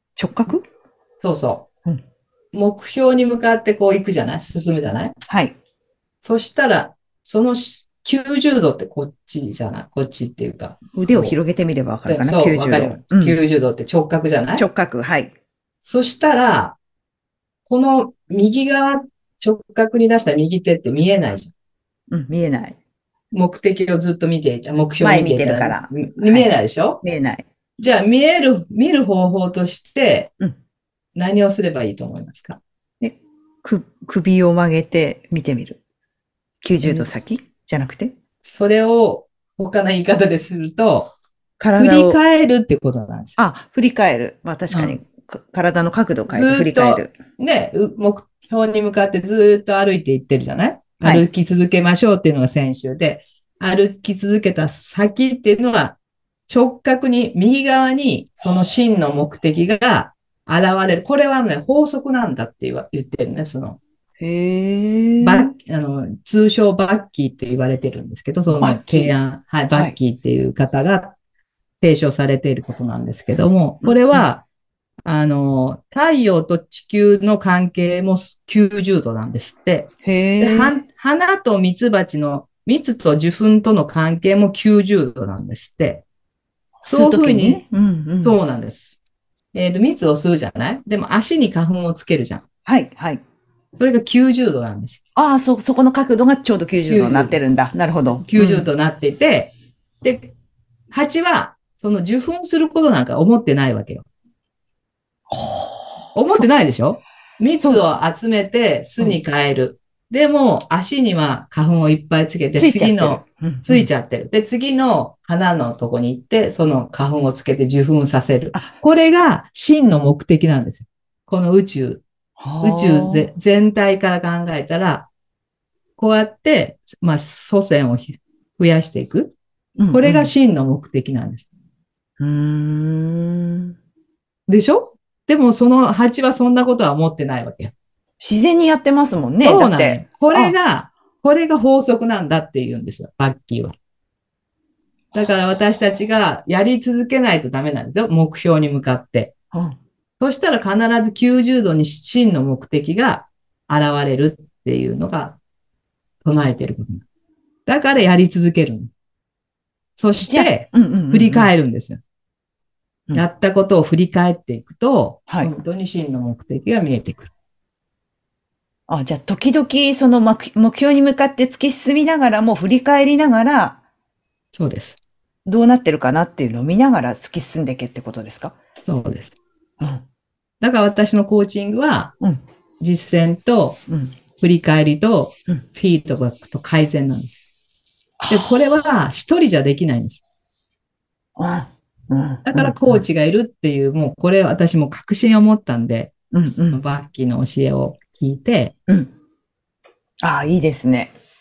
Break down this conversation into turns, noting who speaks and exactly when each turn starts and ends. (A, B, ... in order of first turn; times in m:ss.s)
0:00.2-0:00.6 A
0:01.2-0:01.7 B
0:02.5-0:05.1 B
0:05.3-0:05.5 A
0:06.2-0:11.3 B
0:10.9-0:13.4 A
0:12.0-0:14.6 B
0:14.6-0:15.3 A
0:15.8-0:16.8 B
0:17.7-0:21.5 B
0:22.1-0:22.8 A
0:23.3-0:27.0 B
0:25.0-0:26.5 A
0:27.0-0:27.4 A
0:27.8-0:30.3 B
0:31.1-0:32.6 B
0:33.0-0:35.8 A
0:36.6-0:38.1 A
0:36.8-0:37.2 B
0:38.4-0:41.1 B
0:41.6-0:42.2 A
0:41.8-0:43.4 B
0:43.4-0:47.1 A
0:44.7-0:45.0 B
0:46.3-0:56.0 B
0:51.0-0:51.3 A
0:56.5-1:03.8 B
1:04.2-1:05.5 A
1:05.2-1:11.2 B
1:08.5-1:09.1 A
1:11.8-1:14.4 B
1:13.8-1:14.3 A
1:15.0-1:26.0 B
1:20.0-1:20.8 A
1:26.8-1:28.4 A
1:26.8-1:27.6 B
1:28.2-1:29.0 B
1:29.5-1:32.4 B
1:32.6-1:33.2 A
1:33.8-1:35.0 B
1:35.1-1:38.6 A
1:36.8-1:37.4 B
1:38.2-1:40.3 B
1:40.9-1:44.0 B
1:45.3-1:46.4 A
1:46.2-2:02.0 B
1:47.6-1:47.8 A
1:52.5-1:53.9 A
1:58.5-1:58.9 A
2:02.4-2:03.3 A
2:02.6-2:05.1 B
2:06.0-2:09.3 B
2:09.8-2:10.3 A
2:09.9-2:11.5 B
2:12.2-2:13.7 A
2:14.5-2:17.7 B
2:18.2-2:20.5 A
2:19.4-2:23.7 B
2:25.1-2:29.3 B
2:29.5-2:29.8 A
2:30.2-2:35.4 B
2:36.2-2:37.0 B
2:37.6-2:38.9 B
2:40.0-2:42.0 B
2:40.2-2:41.5 A
2:43.1-2:47.3 B
2:45.3-2:45.5 A
2:48.9-2:53.8 A
2:54.5-2:55.0 B
2:55.4-2:58.5 A
2:58.8-2:59.3 B
3:00.6-3:02.1 B
3:02.8-3:03.8 B
3:03.9-3:04.1 A
3:04.4-3:07.4 B
3:08.2-3:08.6 A
3:08.3-3:10.2 B
3:11.4-3:13.0 A
3:12.4-3:16.1 B
3:16.3-3:16.8 A
3:16.7-3:18.7 B
3:20.2-3:21.1 A